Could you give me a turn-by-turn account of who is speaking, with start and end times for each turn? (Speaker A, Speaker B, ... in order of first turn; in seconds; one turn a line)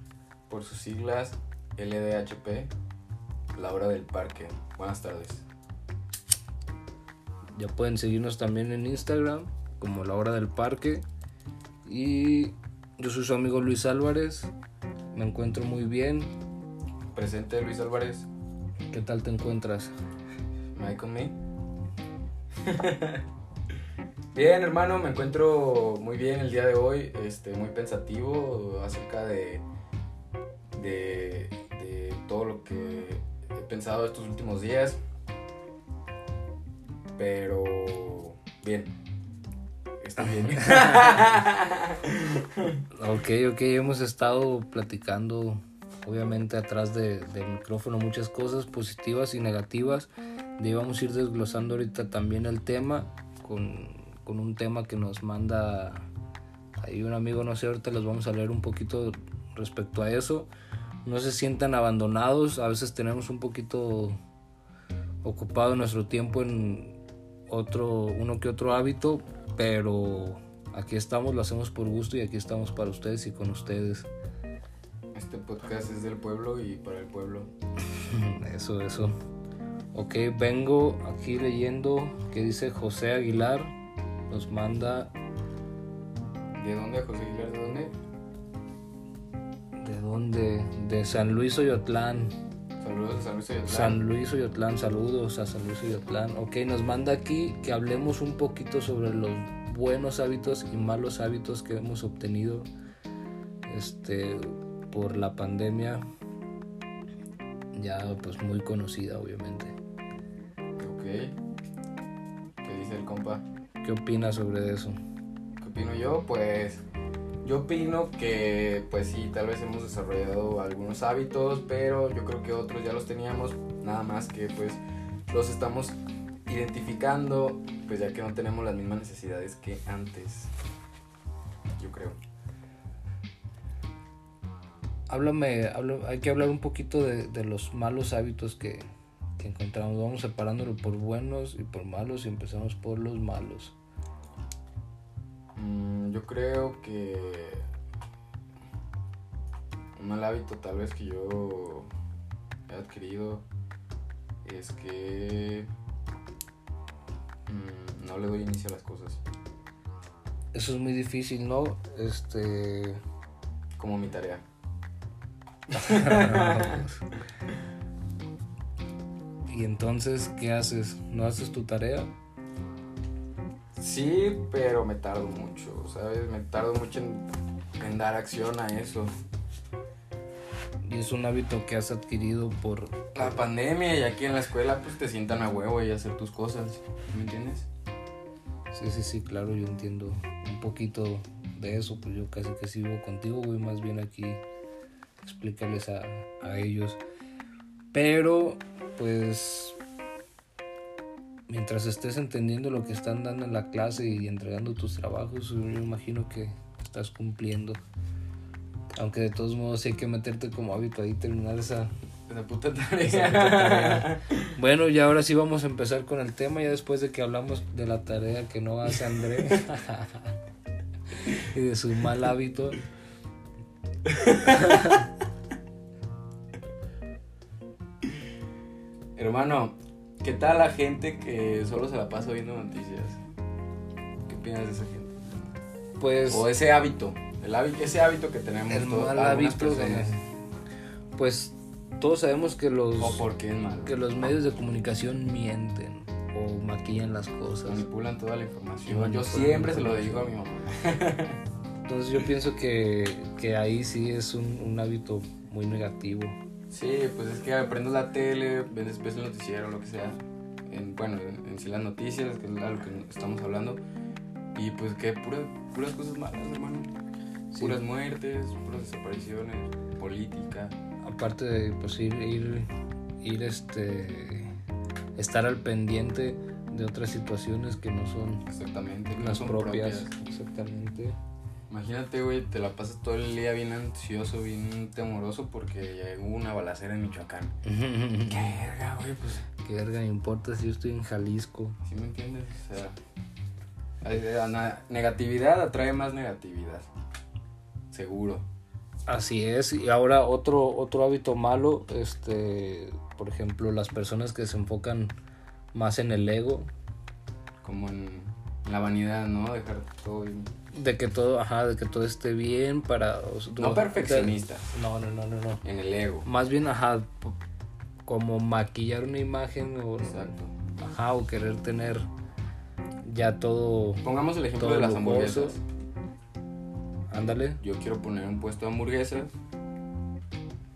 Speaker A: 0.5-2.7
Speaker A: 3.5-5.4
Speaker B: 7.5-11.0
Speaker B: 11.8-14.5
Speaker B: 15.1-16.3
Speaker A: 17.1-18.3
Speaker B: 18.9-19.9
Speaker A: 20.7-21.4
Speaker A: 22.6-23.2
Speaker A: 24.3-29.6
Speaker A: 30.7-35.0
Speaker A: 37.2-38.9
Speaker A: 40.0-42.7
Speaker B: 42.9-56.1
Speaker B: 56.8-60.5
Speaker B: 61.0-64.2
Speaker B: 65.2-67.0
Speaker B: 67.5-74.1
Speaker A: 75.1-77.5
Speaker B: 77.9-79.1
Speaker B: 79.9-83.7
Speaker B: 84.3-85.1
Speaker A: 86.6-87.9
Speaker B: 89.8-92.3
Speaker A: 92.8-94.0
Speaker B: 93.7-102.7
Speaker B: 103.7-106.0
Speaker B: 107.7-109.7
Speaker A: 110.8-111.3
Speaker A: 112.6-113.4
Speaker B: 113.8-115.0
Speaker A: 115.6-116.8
Speaker A: 117.4-130.5
Speaker A: 131.8-132.2
Speaker B: 135.1-138.8
Speaker B: 139.4-143.8
Speaker A: 145.5-147.7
Speaker A: 149.9-151.9
Speaker A: 152.7-153.4
Speaker A: 154.4-155.7
Speaker A: 157.5-159.2
Speaker B: 160.5-163.0
Speaker A: 163.8-164.4
Speaker B: 165.8-167.0
Speaker A: 165.8-166.8
Speaker B: 169.4-172.1
Speaker A: 173.8-177.3
Speaker A: 177.8-179.1
Speaker B: 180.8-183.4
Speaker A: 183.1-187.7
Speaker B: 188.7-194.4
Speaker B: 195.2-197.0
Speaker B: 197.9-199.8
Speaker B: 201.5-207.8
Speaker B: 209.0-211.9
Speaker A: 212.3-214.4
Speaker B: 213.0-220.2
Speaker B: 221.2-222.8
Speaker A: 224.1-225.0
Speaker B: 224.6-225.0
Speaker A: 229.2-233.2
Speaker A: 234.3-235.5
Speaker B: 236.0-236.5
Speaker A: 236.3-240.2
Speaker B: 238.7-240.2
Speaker B: 241.1-243.2
Speaker A: 243.0-244.0
Speaker B: 243.8-247.8
Speaker A: 247.6-251.4
Speaker B: 248.8-250.2
Speaker B: 251.8-256.4
Speaker A: 256.7-263.8
Speaker A: 264.5-266.9
Speaker B: 267.5-267.8
Speaker A: 267.6-270.7
Speaker B: 271.0-272.7
Speaker B: 273.2-274.5
Speaker B: 275.1-278.4
Speaker A: 278.5-280.1
Speaker B: 279.1-281.2
Speaker A: 281.7-287.5
Speaker B: 287.6-288.5
Speaker A: 288.3-289.4
Speaker B: 289.6-291.8
Speaker A: 291.8-293.0
Speaker A: 294.0-296.9
Speaker A: 297.9-298.4
Speaker B: 299.1-305.1
Speaker B: 305.7-306.7
Speaker A: 307.6-310.5
Speaker B: 310.7-315.6
Speaker A: 313.6-314.6
Speaker A: 315.6-316.3
Speaker B: 316.2-317.4
Speaker B: 318.1-322.1
Speaker A: 320.0-320.5
Speaker B: 323.0-324.1
Speaker A: 324.0-325.6
Speaker B: 324.6-325.6
Speaker B: 327.1-327.6
Speaker A: 327.6-329.3